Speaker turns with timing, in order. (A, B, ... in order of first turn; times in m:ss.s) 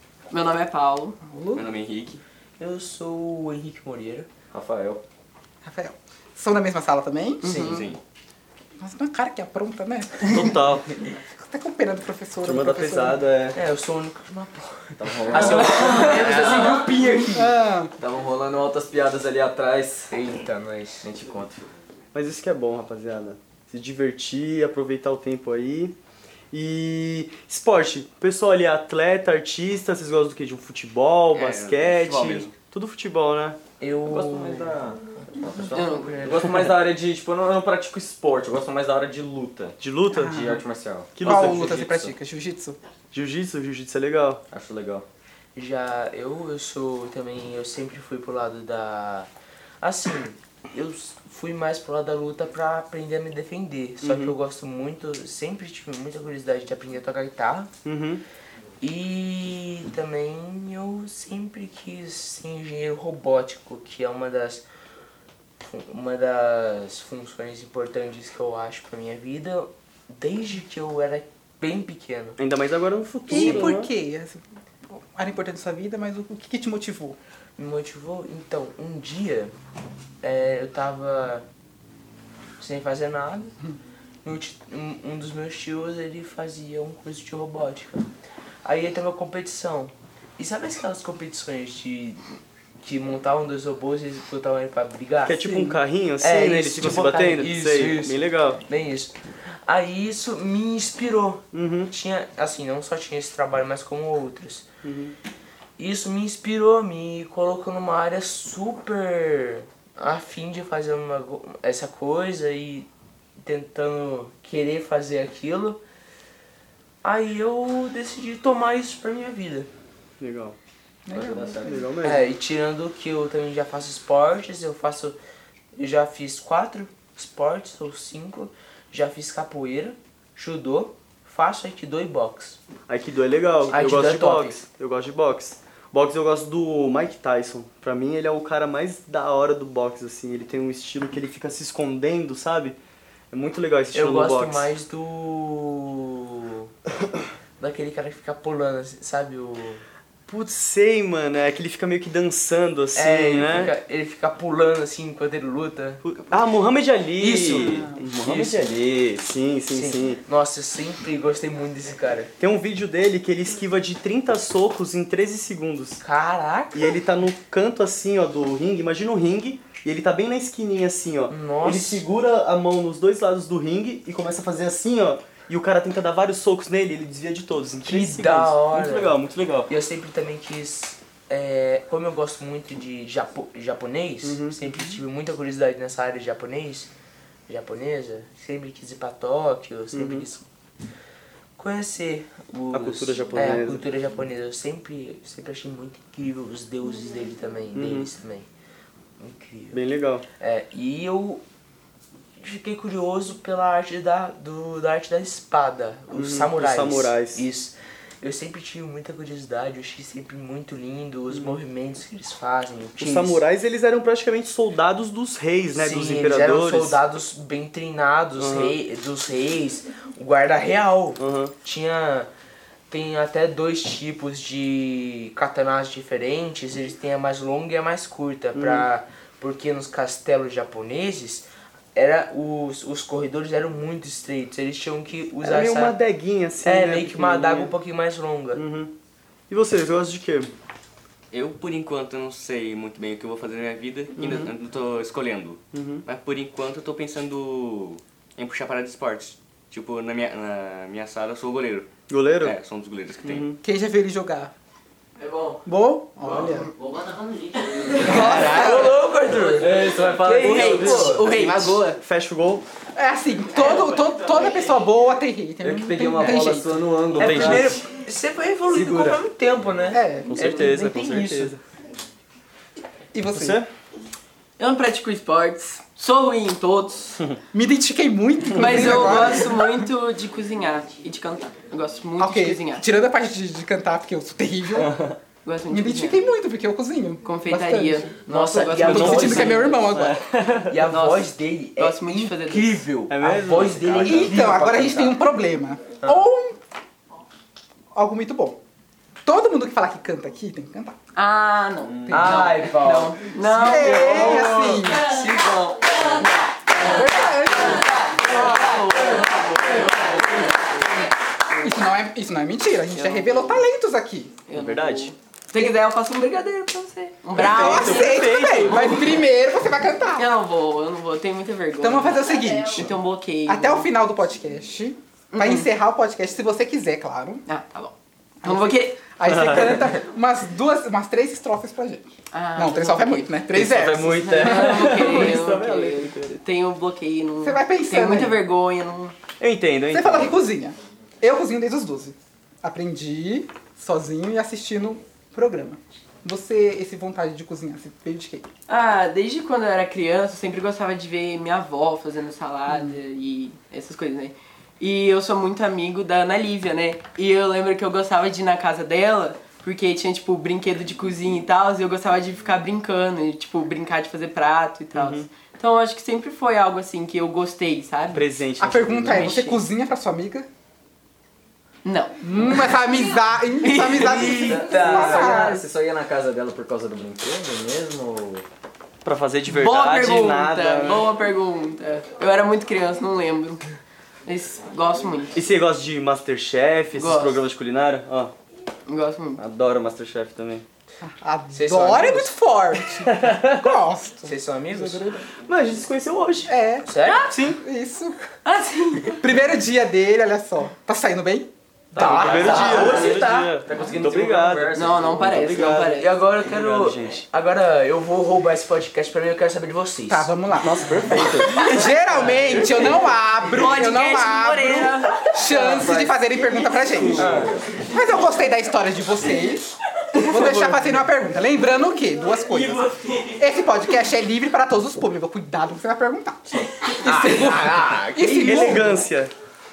0:00.3-0:01.2 A
0:01.2-0:01.7 B
0:01.5-0:02.2 C
0:02.6-0:04.3 D
0:04.5-0:05.0 E
0:05.6-0:07.5 B
0:07.4-0:07.9 A
0:07.5-0:08.0 C
0:08.8-0:10.6 B
0:10.2-0:10.8 F
0:11.4-0:13.2 B
0:12.4-0:13.6 F
0:13.5-0:17.5 D
0:15.0-0:16.8 E
0:15.4-0:16.3 A
0:17.3-0:17.9 B
0:18.0-0:20.1 E
0:20.1-0:21.0 D
0:21.0-0:21.7 E
0:22.1-0:26.0 F
0:26.5-0:33.6 F
0:31.3-0:32.5 C
0:33.8-0:34.8 D
0:34.0-0:39.8 E
0:35.7-0:36.4 A
0:36.0-0:36.6 D
0:39.8-0:40.4 F
0:40.1-0:40.6 B
0:40.3-0:42.1 E
0:41.1-0:41.8 F
0:41.2-0:42.8 B
0:43.1-0:44.4 F
0:44.5-0:45.0 E
0:45.5-0:49.3 D
0:49.8-0:57.7 D
0:54.0-0:54.4 F
0:57.8-0:58.2 F
0:58.8-1:04.6 D
1:05.6-1:12.4 D
1:12.4-1:13.9 F
1:13.3-1:17.2 B
1:13.3-1:13.7 D
1:17.6-1:19.5 D
1:20.2-1:21.4 D
1:22.6-1:23.5 D
1:24.2-1:28.1 D
1:28.6-1:32.2 D
1:32.8-1:44.6 D
1:35.2-1:38.6 F
1:41.5-1:41.9 F
1:44.8-1:45.1 F
1:45.8-1:55.8 D
1:57.0-1:59.7 D
2:00.2-2:00.6 F
2:01.0-2:01.7 B
2:01.1-2:02.0 E
2:01.6-2:02.2 F
2:02.0-2:05.2 D
2:05.8-2:12.6 D
2:12.9-2:22.8 F
2:13.7-2:14.6 D
2:23.3-2:24.7 F
2:23.9-2:26.7 D
2:27.6-2:29.8 D
2:30.3-2:33.7 F
2:32.9-2:36.0 D
2:36.0-2:40.2 F
2:37.2-2:38.4 D
2:39.7-2:42.3 D
2:42.4-2:46.0 F
2:46.0-2:46.8 D
2:46.7-2:59.7 F
2:51.3-2:52.0 D
2:57.8-3:06.9 D
3:04.2-3:05.0 F
3:07.5-3:10.4 D
3:09.9-3:10.2 F
3:11.6-3:18.5 D
3:12.7-3:13.8 F
3:17.7-3:18.1 F
3:19.2-3:19.8 D
3:19.7-3:20.2 F
3:20.4-3:21.4 D
3:22.4-3:33.4 D
3:26.1-3:27.4 F
3:31.3-3:31.6 F
3:33.0-3:37.0 F
3:35.7-3:42.3 D
3:38.4-3:38.8 F
3:41.2-3:41.5 F
3:42.9-3:56.0 D
3:48.5-3:48.9 F
3:55.4-3:57.7 F
3:56.6-3:58.6 D
3:58.5-3:58.9 F
3:59.5-4:00.5 F
4:01.3-4:11.9 C
4:04.2-4:04.5 F
4:05.7-4:06.0 F
4:12.1-4:12.6 F
4:12.4-4:13.5 C
4:13.2-4:13.6 F
4:13.6-4:14.5 B
4:15.2-4:15.6 A
4:15.6-4:16.7 B
4:17.7-4:21.3 D
4:18.0-4:19.0 B
4:19.4-4:21.3 E
4:20.2-4:22.0 A
4:21.3-4:22.6 F
4:22.9-4:26.9 B
4:25.6-4:27.7 E
4:27.2-4:27.8 F
4:27.2-4:31.5 D
4:28.7-4:29.2 F
4:29.9-4:30.4 B
4:30.2-4:31.6 F
4:33.1-4:33.6 B
4:33.3-4:33.7 F
4:34.6-4:37.2 A
4:37.5-4:39.8 B
4:38.5-4:42.8 A
4:42.2-4:44.9 B
4:45.4-4:46.2 A
4:45.7-4:48.1 B
4:47.2-4:49.6 A
4:48.3-4:49.7 D
4:48.8-4:51.3 F
4:48.9-4:50.2 B
4:50.7-4:55.2 D
4:51.8-4:52.8 A
4:53.1-4:54.4 F
4:54.0-4:56.6 B
4:57.9-4:58.6 B
4:59.2-5:01.0 B
5:01.1-5:10.5 A
5:02.0-5:02.5 B
5:02.1-5:03.2 D
5:03.5-5:05.2 B
5:06.8-5:08.8 B
5:11.6-5:14.4 B
5:12.9-5:13.6 A
5:14.5-5:19.2 A
5:14.5-5:15.1 F
5:17.3-5:19.1 F
5:17.4-5:20.3 B
5:20.1-5:23.9 A
5:21.8-5:22.9 B
5:23.5-5:27.4 B
5:25.3-5:25.7 A
5:27.4-5:27.9 A
5:28.4-5:29.0 A
5:28.4-5:35.0 B
5:32.3-5:33.4 A
5:33.5-5:36.3 F
5:34.1-5:39.1 A
5:37.4-5:38.4 B
5:39.4-5:40.4 F
5:39.9-5:48.4 B
5:48.7-6:08.3 A
6:04.9-6:05.2 F
6:08.1-6:09.3 F
6:08.6-6:10.5 B
6:09.0-6:09.6 A
6:11.8-6:13.1 A
6:12.2-6:15.6 B
6:13.6-6:14.6 A
6:14.0-6:15.6 D
6:14.4-6:18.4 E
6:15.2-6:15.5 A
6:19.0-6:21.1 F
6:19.5-6:23.6 A
6:24.2-6:25.4 A
6:25.3-6:28.3 F
6:26.9-6:27.4 A
6:28.8-6:29.4 A
6:29.4-6:30.6 F
6:31.0-6:35.2 B
6:31.5-6:32.3 D
6:34.2-6:35.2 D
6:35.4-6:36.5 F
6:36.5-6:36.9 B
6:36.8-6:37.3 D
6:37.2-6:37.6 F
6:37.5-6:38.2 B
6:38.4-6:39.2 A
6:39.2-6:41.5 B
6:41.9-6:43.6 D
6:41.9-6:45.2 E
6:42.0-6:47.2 F
6:44.7-6:46.2 A
6:46.0-6:50.3 D
6:50.1-7:09.0 B
6:50.6-6:51.6 F
6:52.9-6:56.1 A
6:56.6-6:57.8 E
6:57.1-6:57.5 D
7:07.0-7:09.0 D
7:08.4-7:09.3 F